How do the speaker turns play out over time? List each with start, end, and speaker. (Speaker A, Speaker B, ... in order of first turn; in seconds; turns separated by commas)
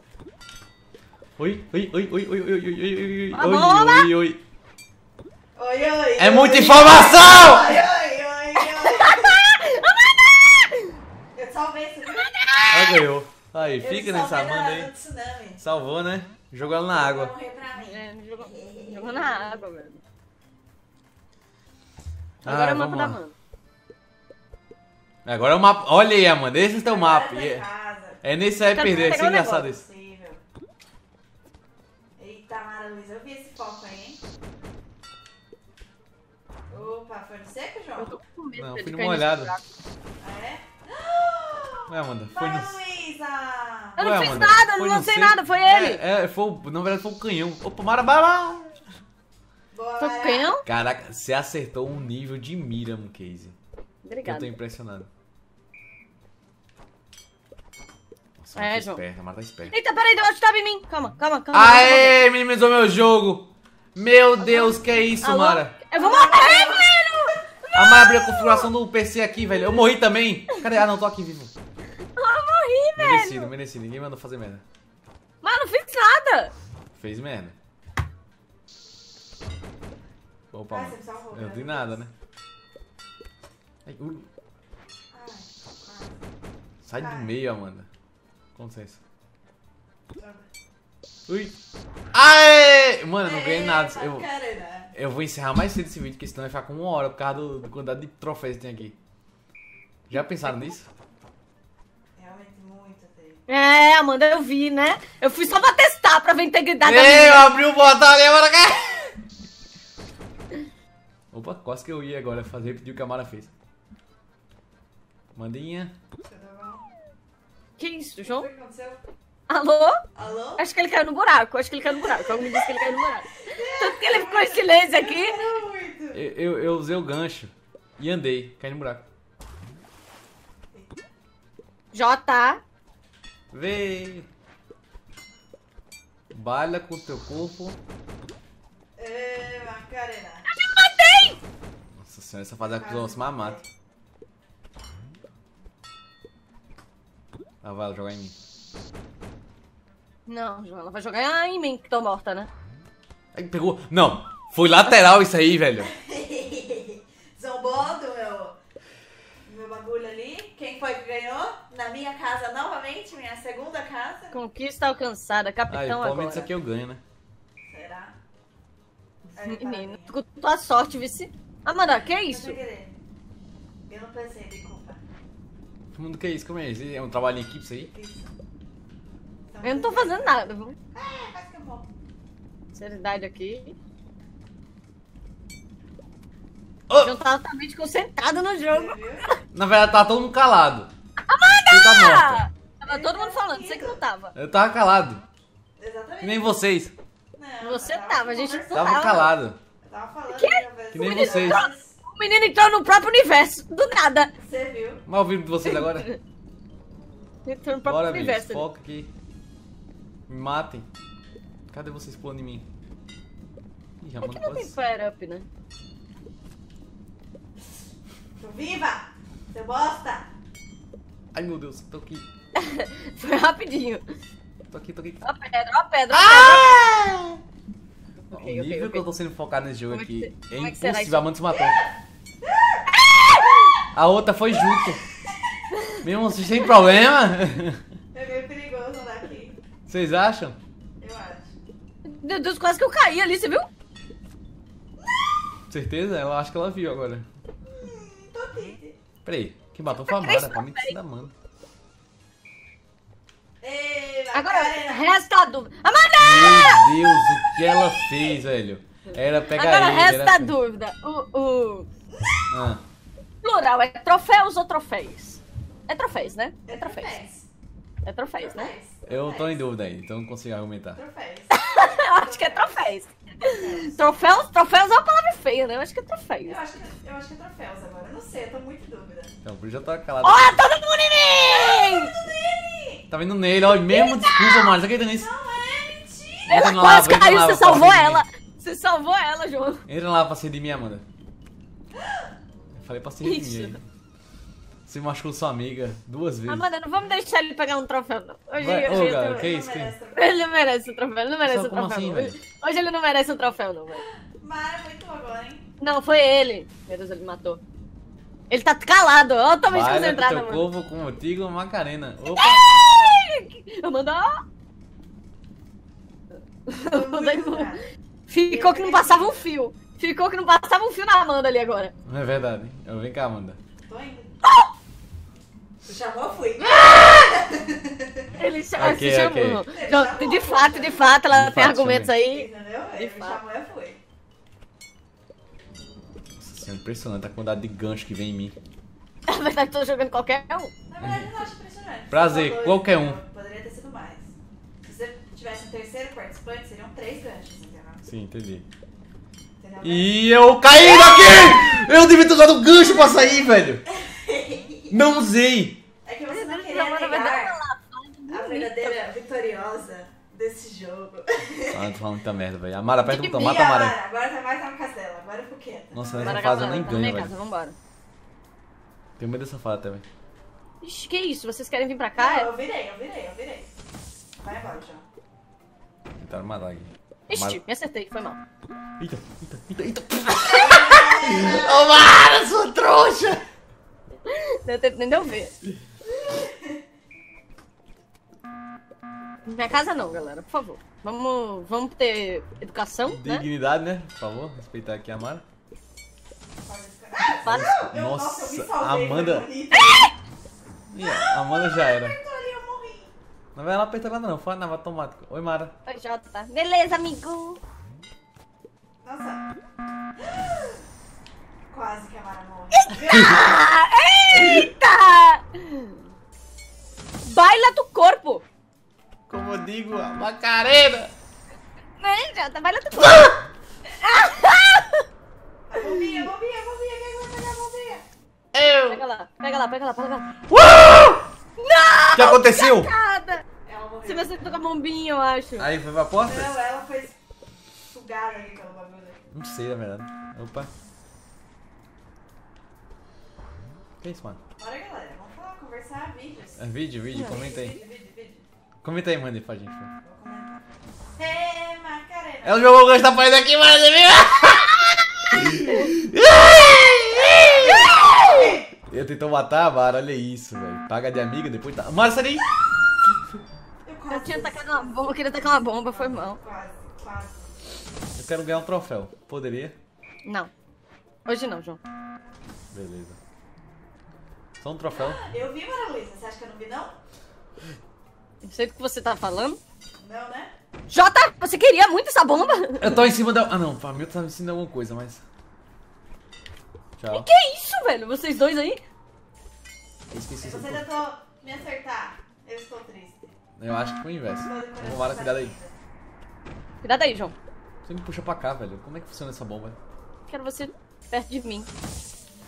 Speaker A: 1.4-4.4, Speaker B: 3.3-4.1, Speaker C: 5.5-9.4, Speaker A: 6.2-7.8, Speaker B: 8.6-11.0, Speaker C: 11.3-12.3, Speaker B: 12.2-13.0, Speaker A: 12.7-14.9, Speaker C: 13.8-15.6, Speaker A: 15.6-17.3, Speaker C: 16.9-19.6, Speaker B: 17.7-20.0, Speaker A: 22.4-23.2, Speaker B: 22.4-23.3, Speaker A: 25.2-27.6, Speaker C: 26.9-28.2, Speaker A: 28.2-29.8, Speaker B: 28.7-29.7, Speaker C: 28.8-30.4, Speaker C: 32.2-34.2, Speaker C: 36.7-38.2, Speaker B: 38.0-39.6, Speaker A: 38.6-39.5, Speaker C: 40.2-44.0, Speaker A: 41.9-42.8, Speaker B: 44.0-46.0, Speaker A: 44.0-48.8, Speaker C: 49.7-50.6, Speaker B: 50.0-50.6, Speaker A: 50.6-53.5, Speaker B: 54.0-54.5, Speaker A: 54.2-55.1, Speaker A: 58.4-59.7, Speaker B: 58.5-59.0, Speaker B: 59.7-62.2, Speaker A: 61.5-65.7, Speaker B: 65.2-68.7, Speaker C: 66.0-66.9, Speaker A: 67.7-71.5, Speaker B: 72.2-73.5, Speaker A: 73.0-74.6, Speaker B: 75.4-76.5, Speaker A: 76.9-77.5, Speaker A: 80.5-82.1, Speaker C: 80.7-82.0, Speaker A: 83.8-84.3, Speaker C: 85.1-86.2, Speaker A: 86.8-87.9, Speaker C: 87.0-87.3, Speaker A: 88.5-89.0, Speaker C: 90.2-90.5, Speaker A: 91.3-91.5, Speaker A: 92.1-94.2, Speaker C: 93.2-94.9, Speaker A: 94.9-99.0, Speaker A: 100.1-100.9, Speaker C: 102.2-103.4, Speaker B: 103.5-107.5, Speaker A: 106.8-109.1, Speaker A: 111.3-113.5, Speaker A: 115.3-115.9, Speaker C: 116.2-116.8, Speaker B: 117.8-118.5, Speaker C: 118.2-119.0, Speaker B: 119.5-120.0, Speaker C: 120.1-120.7, Speaker B: 120.6-125.4, Speaker C: 121.9-122.8, Speaker C: 123.4-126.2, Speaker A: 126.1-129.0, Speaker B: 131.9-132.6, Speaker A: 133.5-134.3, Speaker A: 136.3-137.8, Speaker C: 139.0-140.5, Speaker B: 140.5-141.4, Speaker A: 142.0-143.6, Speaker C: 142.6-143.7, Speaker A: 147.6-148.3, Speaker B: 150.3-152.5, Speaker A: 153.3-155.9, Speaker C: 155.8-158.6, Speaker C: 159.4-164.3, Speaker B: 164.3-166.5, Speaker A: 165.7-167.0, Speaker C: 167.6-168.1, Speaker C: 169.4-170.2, Speaker B: 169.4-172.6, Speaker C: 172.0-172.9, Speaker C: 173.8-175.0, Speaker A: 175.9-177.9, Speaker C: 177.9-178.3, Speaker C: 179.5-180.4, Speaker B: 179.6-180.8, Speaker C: 180.9-181.9, Speaker B: 182.7-183.8, Speaker A: 186.9-187.1, Speaker B: 187.0-189.4, Speaker C: 188.7-189.2, Speaker A: 189.5-190.9, Speaker B: 191.3-194.3, Speaker A: 191.5-192.4, Speaker C: 192.8-194.0, Speaker A: 194.3-195.2, Speaker C: 195.8-196.6, Speaker A: 196.2-196.9, Speaker C: 197.4-198.8, Speaker B: 197.6-199.3, Speaker A: 198.7-199.6, Speaker C: 199.8-201.9, Speaker B: 200.3-204.3, Speaker A: 200.9-201.6, Speaker C: 204.4-205.0, Speaker A: 205.1-206.1, Speaker B: 205.7-206.2, Speaker B: 207.4-208.6, Speaker A: 207.8-209.1, Speaker A: 210.3-210.9, Speaker A: 211.7-212.6, Speaker A: 214.0-214.8, Speaker B: 214.2-215.4, Speaker C: 218.4-220.3, Speaker A: 221.3-222.2, Speaker B: 222.5-224.0, Speaker A: 224.7-225.2, Speaker B: 225.2-226.8, Speaker A: 226.1-227.4, Speaker B: 228.3-229.1, Speaker A: 228.3-231.8, Speaker B: 229.9-231.3, Speaker C: 231.5-231.9, Speaker C: 232.5-232.8, Speaker B: 232.9-233.5, Speaker A: 233.9-235.0, Speaker A: 236.0-237.8, Speaker C: 238.1-239.6, Speaker A: 239.9-240.6, Speaker C: 241.0-241.5, Speaker B: 242.1-243.7, Speaker A: 245.7-247.2, Speaker C: 247.8-248.9, Speaker A: 249.2-251.3, Speaker B: 250.1-250.9, Speaker C: 253.6-255.1, Speaker B: 254.3-256.9, Speaker A: 256.2-260.6, Speaker B: 259.5-261.9, Speaker A: 262.5-262.8, Speaker B: 263.4-267.1, Speaker C: 266.7-267.5, Speaker B: 268.0-268.7, Speaker C: 268.4-269.6, Speaker A: 269.1-271.0, Speaker C: 270.9-274.0, Speaker B: 271.5-276.6, Speaker C: 276.4-279.3, Speaker A: 279.4-280.5, Speaker B: 280.2-282.1, Speaker C: 282.1-283.1, Speaker A: 283.1-285.3, Speaker B: 283.8-284.7, Speaker C: 285.1-286.7, Speaker A: 286.5-288.2, Speaker B: 286.5-289.8, Speaker A: 289.9-291.0, Speaker C: 291.9-292.2, Speaker A: 292.7-293.8, Speaker B: 293.2-293.8, Speaker A: 294.9-296.6, Speaker B: 296.5-299.4, Speaker A: 298.6-299.9, Speaker C: 298.7-300.4, Speaker B: 300.1-304.0, Speaker A: 301.4-302.4, Speaker C: 303.9-305.7, Speaker B: 305.8-307.6, Speaker B: 308.5-310.6, Speaker A: 309.7-312.6, Speaker B: 312.3-314.4, Speaker B: 316.7-317.8, Speaker C: 316.7-317.8, Speaker B: 318.3-321.9, Speaker C: 318.4-319.4, Speaker A: 322.1-323.6, Speaker C: 323.9-324.3, Speaker C: 325.8-328.3, Speaker B: 326.6-327.4, Speaker B: 328.4-333.4, Speaker A: 328.8-329.6, Speaker C: 329.7-331.1, Speaker A: 331.3-332.1, Speaker C: 332.2-334.0, Speaker A: 336.4-338.6, Speaker B: 339.3-340.7, Speaker C: 340.9-344.3, Speaker A: 342.1-343.2, Speaker C: 344.8-348.1, Speaker A: 348.1-348.6, Speaker C: 349.6-350.1, Speaker A: 349.8-353.8, Speaker C: 353.9-355.0, Speaker A: 354.9-355.8, Speaker C: 356.0-357.6, Speaker B: 356.3-358.9, Speaker C: 358.3-361.9, Speaker A: 361.7-363.9, Speaker B: 363.1-363.5, Speaker C: 363.2-366.7, Speaker A: 365.9-367.3, Speaker B: 366.2-367.7, Speaker A: 369.2-370.0, Speaker B: 370.8-372.5, Speaker C: 372.2-373.7, Speaker C: 374.4-375.0, Speaker A: 376.2-377.6, Speaker B: 377.3-378.4, Speaker A: 379.0-383.4, Speaker C: 380.5-381.7, Speaker B: 384.2-385.5, Speaker C: 386.2-386.8, Speaker B: 389.5-393.4, Speaker C: 389.9-390.2, Speaker A: 393.1-395.4, Speaker C: 396.6-400.1, Speaker B: 397.4-397.8, Speaker A: 397.4-399.5, Speaker A: 400.9-402.1, Speaker C: 401.1-403.1, Speaker A: 403.5-405.7, Speaker B: 405.9-407.6, Speaker C: 409.0-409.4, Speaker C: 410.2-410.8, Speaker C: 411.7-413.5, Speaker B: 412.8-416.0, Speaker A: 413.1-413.4, Speaker A: 414.3-414.7, Speaker B: 417.2-418.4, Speaker A: 419.3-421.1, Speaker B: 422.0-425.1, Speaker C: 425.7-428.1, Speaker B: 425.8-426.2, Speaker A: 428.5-429.0, Speaker B: 428.9-430.3, Speaker A: 430.5-431.3, Speaker B: 431.6-433.4, Speaker A: 432.1-432.9, Speaker C: 433.6-434.4, Speaker B: 434.1-435.7, Speaker A: 435.6-436.5, Speaker C: 436.3-437.1, Speaker C: 437.9-439.2, Speaker A: 439.3-440.7, Speaker A: 444.0-444.4, Speaker C: 444.6-448.4, Speaker A: 446.6-447.7, Speaker B: 447.1-447.6, Speaker A: 448.8-449.9, Speaker C: 450.0-450.6, Speaker C: 451.1-452.7, Speaker A: 452.4-462.5, Speaker C: 457.3-458.6, Speaker C: 463.8-465.1, Speaker B: 464.1-466.4, Speaker C: 465.9-467.5, Speaker A: 468.2-469.8, Speaker B: 470.2-470.5, Speaker B: 471.2-471.8, Speaker A: 472.7-473.2, Speaker A: 474.6-475.2, Speaker C: 474.9-476.9, Speaker B: 478.4-479.6, Speaker C: 480.0-480.5, Speaker B: 480.9-482.9, Speaker A: 482.8-485.2, Speaker A: 487.0-487.3, Speaker B: 487.1-488.8, Speaker A: 490.1-490.8, Speaker C: 490.4-493.3, Speaker A: 493.6-495.5, Speaker C: 494.4-495.7, Speaker B: 496.8-497.3, Speaker A: 497.9-499.8, Speaker B: 500.3-501.7